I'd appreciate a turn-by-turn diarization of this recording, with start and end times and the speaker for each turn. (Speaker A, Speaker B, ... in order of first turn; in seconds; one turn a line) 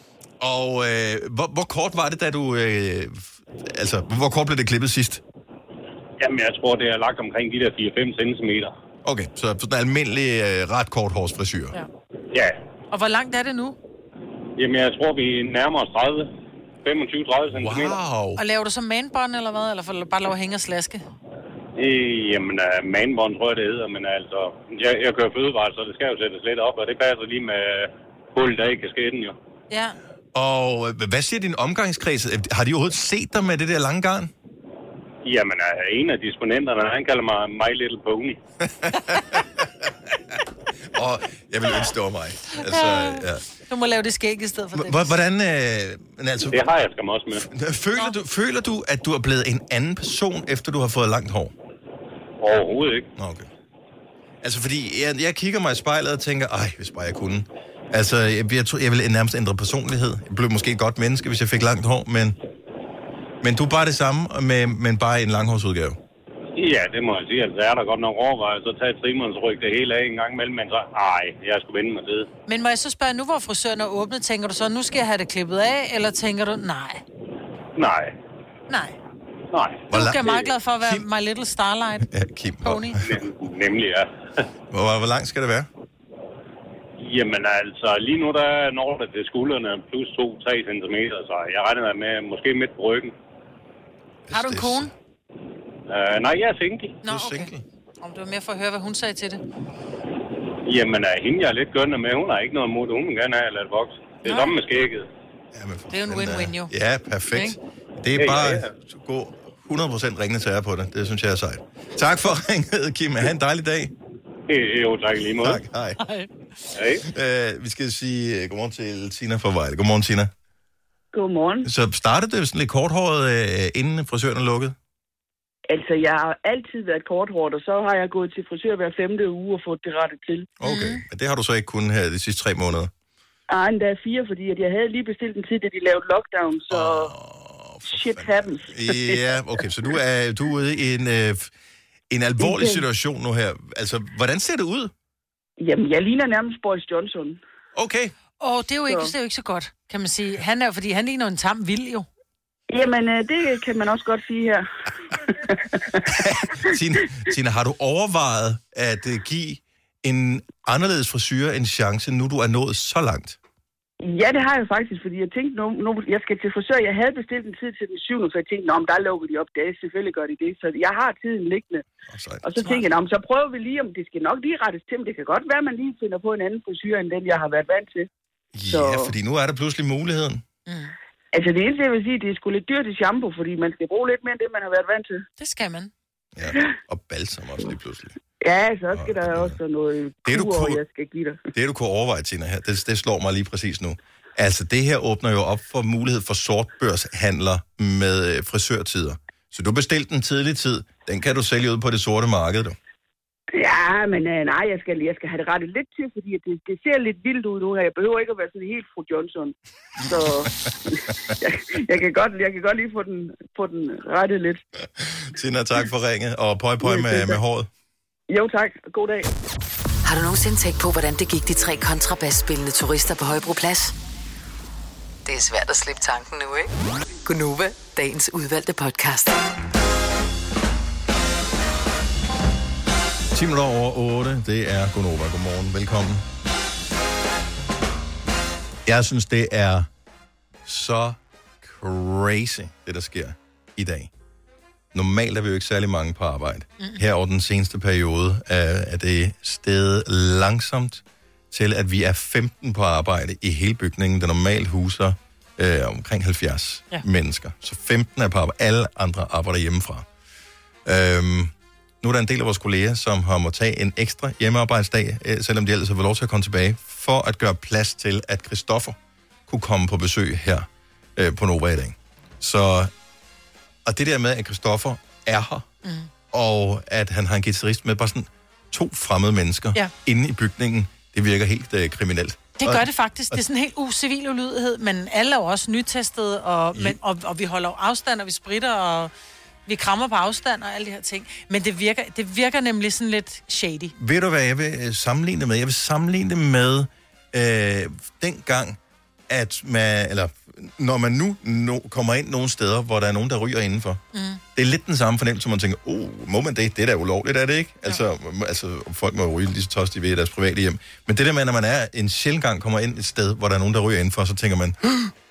Speaker A: 0.4-5.2
Speaker B: 6.2-8.7
Speaker A: 9.0-11.8
Speaker B: 12.3-12.6
Speaker C: 12.9-13.8
Speaker B: 14.6-16.3
Speaker B: 16.8-18.0
Speaker A: 17.5-18.4
Speaker C: 18.4-21.0
Speaker B: 21.8-29.4
Speaker C: 29.7-30.0
Speaker A: 30.3-34.3
Speaker B: 35.2-38.4
Speaker A: 38.8-39.9
Speaker A: 40.9-43.4
Speaker C: 42.5-45.1
Speaker A: 44.7-46.6
Speaker B: 46.5-47.5
Speaker A: 47.4-51.5
Speaker B: 52.4-53.1
Speaker A: 53.2-53.5
Speaker A: 54.4-62.4
Speaker A: 63.4-66.0
Speaker B: 66.6-72.3
Speaker C: 72.5-77.0
Speaker B: 77.8-78.1
Speaker C: 78.7-79.0
Speaker B: 79.5-80.4
Speaker A: 79.9-81.1
Speaker C: 79.9-83.0
Speaker A: 82.0-83.2
Speaker B: 83.0-84.1
Speaker A: 84.7-85.7
Speaker B: 87.0-93.1
Speaker A: 94.3-94.9
Speaker C: 94.3-94.9
Speaker B: 95.9-97.0
Speaker C: 97.0-99.4
Speaker A: 97.0-97.6
Speaker B: 100.7-105.1
Speaker C: 104.2-104.5
Speaker A: 105.5-113.9
Speaker C: 105.9-106.7
Speaker C: 107.3-107.6
Speaker B: 108.2-108.7
Speaker B: 114.5-115.6
Speaker A: 115.4-116.0
Speaker C: 116.0-116.3
Speaker B: 116.8-117.0
Speaker A: 117.0-120.3
Speaker D: 121.1-121.7
Speaker A: 121.6-124.8
Speaker D: 125.7-130.5
Speaker A: 130.6-132.9
Speaker C: 130.6-131.0
Speaker D: 133.5-137.1
Speaker A: 136.7-141.5
Speaker D: 137.9-139.2
Speaker A: 142.1-144.9
Speaker D: 142.4-142.8
Speaker D: 145.6-147.4
Speaker A: 147.8-148.1
Speaker C: 148.4-152.1
Speaker D: 152.7-154.7
Speaker D: 155.3-156.1
Speaker A: 156.1-163.4
Speaker D: 164.1-171.8
Speaker A: 172.1-172.6
Speaker D: 172.4-178.1
Speaker A: 178.5-180.4
Speaker D: 178.7-179.1
Speaker C: 180.7-180.9
Speaker D: 181.3-185.2
Speaker C: 185.4-185.9
Speaker A: 186.3-188.2
Speaker D: 188.4-191.4
Speaker A: 188.9-189.6
Speaker A: 190.2-190.8
Speaker A: 191.5-202.8
Speaker D: 203.6-214.7
Speaker A: 215.0-217.7
Speaker D: 216.8-217.4
Speaker D: 218.3-219.3
Speaker E: 220.1-223.9
Speaker E: 225.2-226.7
Speaker E: 227.3-229.4
Speaker A: 233.3-236.2
Speaker A: 238.8-239.9
Speaker A: 240.7-244.1
Speaker A: 244.9-260.1
Speaker A: 260.9-272.9
Speaker A: 273.9-275.7
Speaker C: 275.8-276.1
Speaker A: 276.3-283.4
Speaker C: 282.6-289.1
Speaker C: 289.7-293.9
Speaker A: 294.0-298.8
Speaker A: 299.3-304.0
Speaker C: 304.1-304.4
Speaker A: 304.6-315.1